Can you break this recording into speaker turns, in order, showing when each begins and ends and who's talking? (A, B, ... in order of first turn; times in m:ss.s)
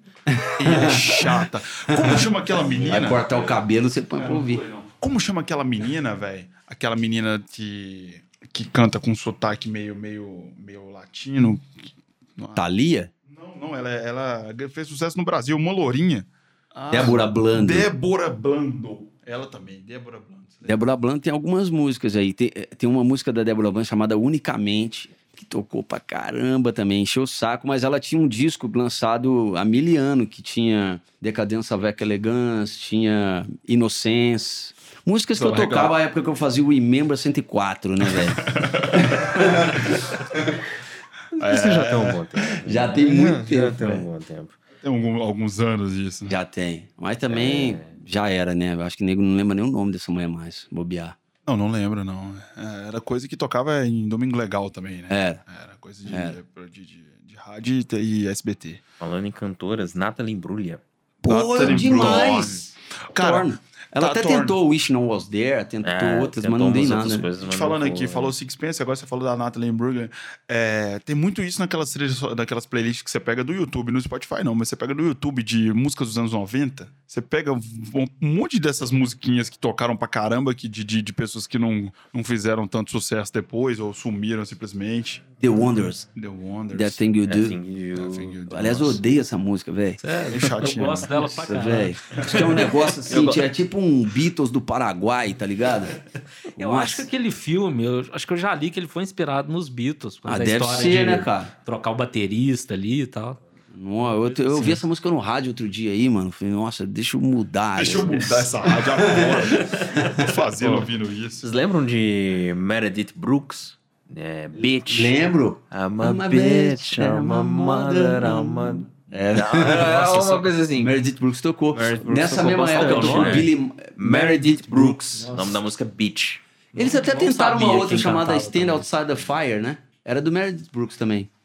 0:00.3-0:02.2 A
0:00.6-0:03.2 B
0:02.6-0:03.6 C
0:02.9-0:04.6 A
0:04.2-0:11.7 B
0:12.6-0:13.1 A
0:13.3-0:20.7 B
0:16.9-0:17.9 A
0:20.6-0:40.4 A
0:35.4-0:35.9 B
0:35.4-0:35.8 C
0:38.5-0:40.0 B
0:41.4-0:44.6 C
0:41.4-0:42.5 B
0:42.6-0:44.1 A
0:44.8-0:46.4 B
0:46.3-0:51.2 A
0:47.3-0:47.9 C
0:51.4-0:58.8 B
0:55.1-0:55.4 A
0:56.1-0:56.4 A
0:59.0-1:00.8 C
1:01.2-1:07.3 A
1:01.2-1:02.6 B
1:01.6-1:02.7 C
1:03.1-1:04.6 B
1:05.8-1:08.3 C
1:07.4-1:25.2 B
1:25.4-1:26.1 A
1:26.1-1:27.0 B
1:26.7-1:27.6 A
1:27.2-1:28.4 C
1:28.0-1:29.0 B
1:28.5-1:30.0 A
1:30.0-1:32.8 D
1:30.3-1:31.1 B
1:31.1-1:36.0 A
1:33.1-1:33.5 C
1:36.5-1:37.1 A
1:36.6-1:43.4 D
1:40.3-1:41.5 A
1:43.7-1:50.3 A
1:44.2-1:44.8 D
1:47.8-1:51.4 B
1:50.6-1:50.9 C
1:51.4-1:55.1 C
1:54.6-2:05.3 A
1:55.7-2:00.9 C
2:01.7-2:06.4 C
2:02.7-2:03.5 D
2:05.2-2:05.6 D
2:06.8-2:08.9 D
2:06.8-2:11.3 A